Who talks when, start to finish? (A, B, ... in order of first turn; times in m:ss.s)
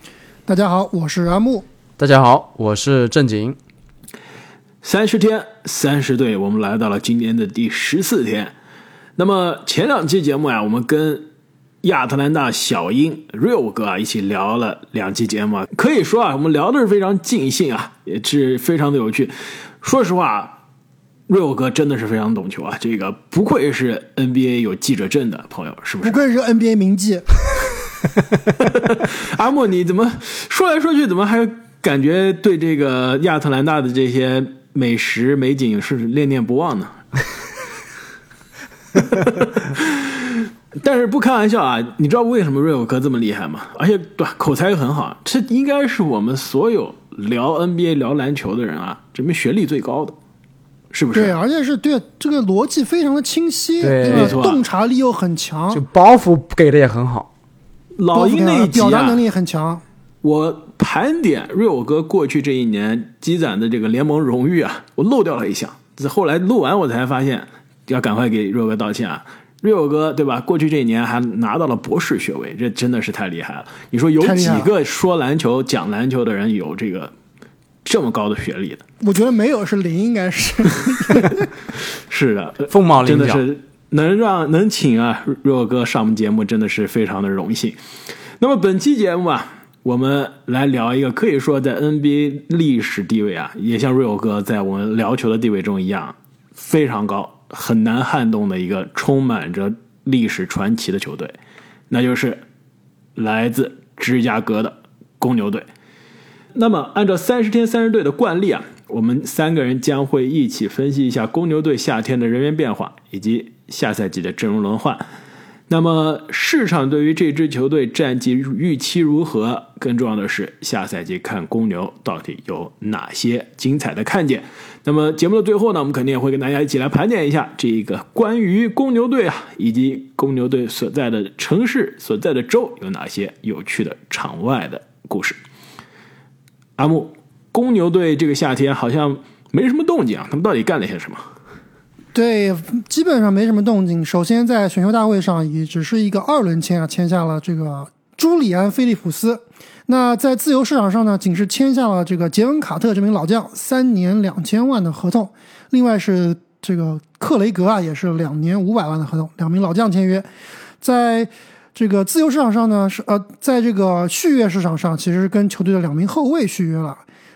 0:00.5-0:01.6 A
0:02.0-0:03.6 B
0:04.8-0:08.5 C
0:09.2-0:11.3 C
0:11.8-0:20.6 C
0:21.3-0:26.2 C
0:26.0-0:27.3 A
0:28.7-0:37.0 C
0:39.0-0:50.2 C
0:50.9-0:51.4 C
0:51.1-0:55.8 A
0:53.8-0:54.5 B
0:54.0-0:54.6 C
0:55.7-0:57.3 B
0:58.0-0:59.2 C
0:58.1-0:59.8 A
1:00.2-1:17.1 C
1:14.2-1:14.7 A
1:17.8-1:18.8 C
1:19.0-1:21.5 A
1:22.1-1:27.8 C
1:22.7-1:23.4 B
1:28.4-1:41.3 C
1:41.9-1:42.4 C
1:43.2-1:45.7 C
1:46.5-1:55.0 C
1:55.7-2:15.4 C
2:16.8-2:21.2 C
2:22.1-2:40.3 A
2:40.8-2:47.0 A